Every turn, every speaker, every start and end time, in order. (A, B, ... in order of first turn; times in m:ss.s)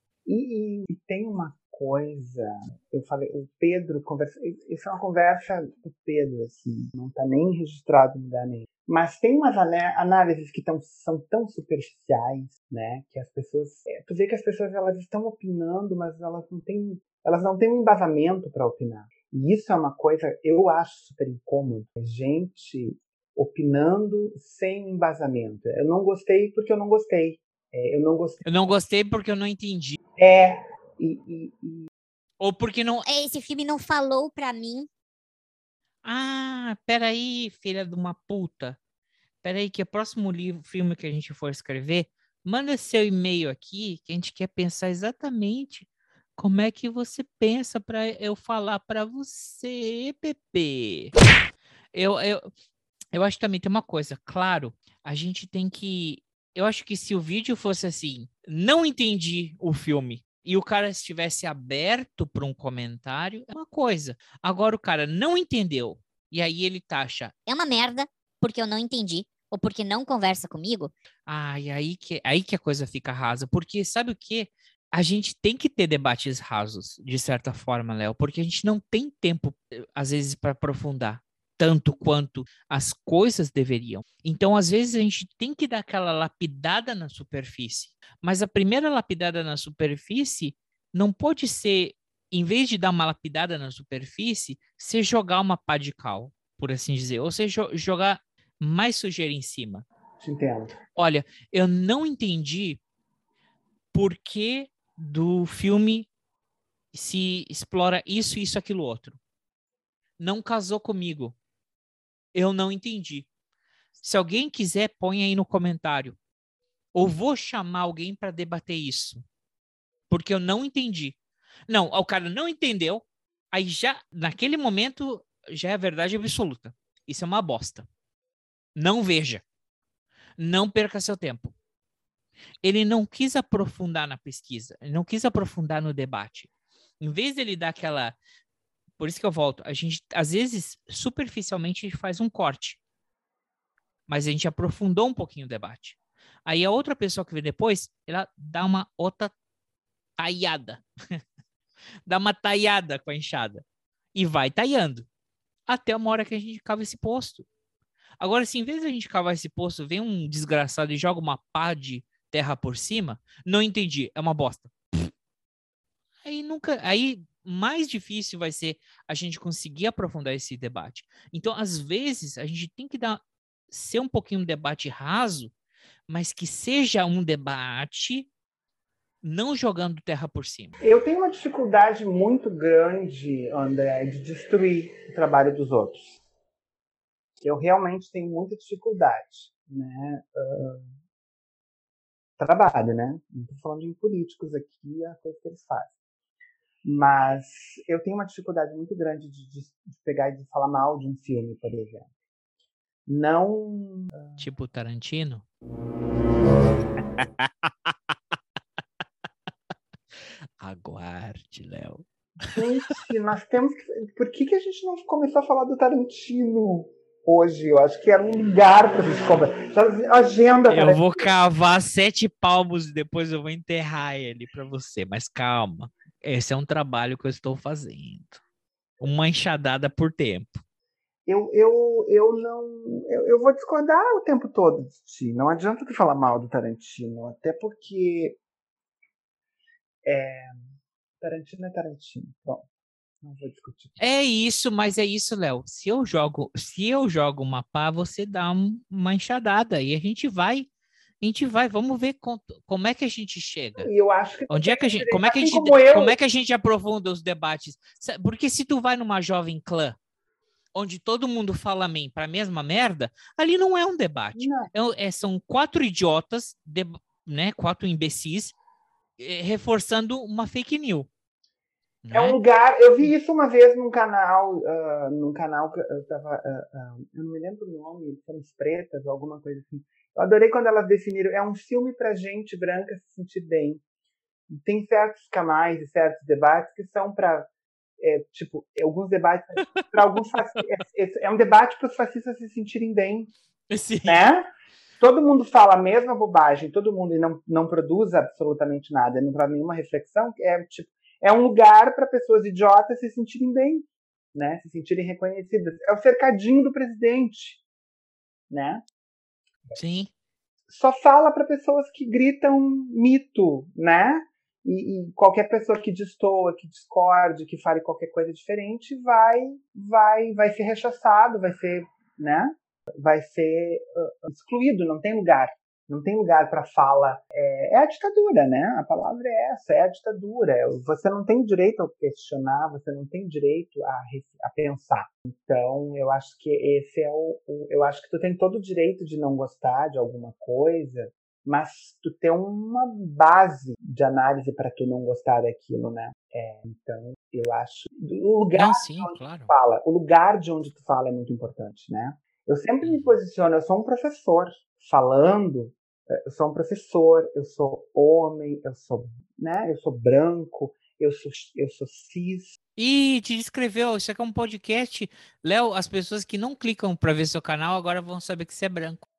0:00.3-0:28.4 A
0:28.4-0:30.0 B
0:30.2-0:31.9 A
0:32.4-0:33.0 B
0:33.0-0:34.9 C
0:36.0-0:38.8 B
0:39.4-0:45.9 B
0:46.4-0:51.1 B
0:51.9-0:52.5 B
0:53.1-1:07.3 B
1:07.5-1:10.9 C
1:11.3-1:39.9 B
1:40.2-1:40.8 A
1:41.0-1:42.8 B
1:43.9-1:46.1 B
1:46.9-1:49.2 B
1:50.2-1:51.4 B
1:52.3-1:53.3 B
1:54.0-1:56.2 B
1:56.9-1:59.2 B
2:00.1-2:01.2 B
2:01.7-2:07.9 B
2:08.8-2:09.4 B
2:10.4-2:11.6 B
2:12.6-2:16.5 B
2:17.0-2:18.2 B
2:19.0-2:22.8 B
2:24.1-2:29.3 B
2:30.2-2:31.2 B
2:32.1-2:35.1 B
2:35.7-2:37.5 B
2:38.2-2:44.7 B
2:46.2-2:55.5 B
2:56.1-2:58.3 B
2:59.2-3:00.8 B
3:00.8-3:06.2 A
3:07.4-3:10.9 A
3:12.4-3:16.0 A
3:16.8-3:22.1 A
3:23.1-3:24.5 A
3:24.4-3:25.4 B
3:27.2-3:27.9 B
3:30.6-3:32.0 B
3:32.5-3:41.3 A
3:40.7-3:48.4 B
3:49.0-3:50.6 B
3:51.3-3:58.4 A
4:00.0-4:02.7 A
4:03.2-4:04.0 A
4:04.0-4:10.7 B
4:11.2-4:13.9 B
4:13.8-4:16.2 A
4:14.5-4:20.0 B
4:20.8-4:28.6 B
4:24.4-4:24.7 A
4:29.2-4:31.1 B
4:32.0-4:32.4 B
4:32.1-4:43.8 A
4:44.5-4:53.3 A
4:53.7-4:54.3 B
4:54.0-4:54.5 A
4:55.0-5:07.6 A
5:08.5-5:08.8 A
5:09.8-5:10.1 B
5:10.7-6:02.6 A
5:48.6-5:49.5 B
5:52.8-5:53.1 B
6:02.8-6:09.0 B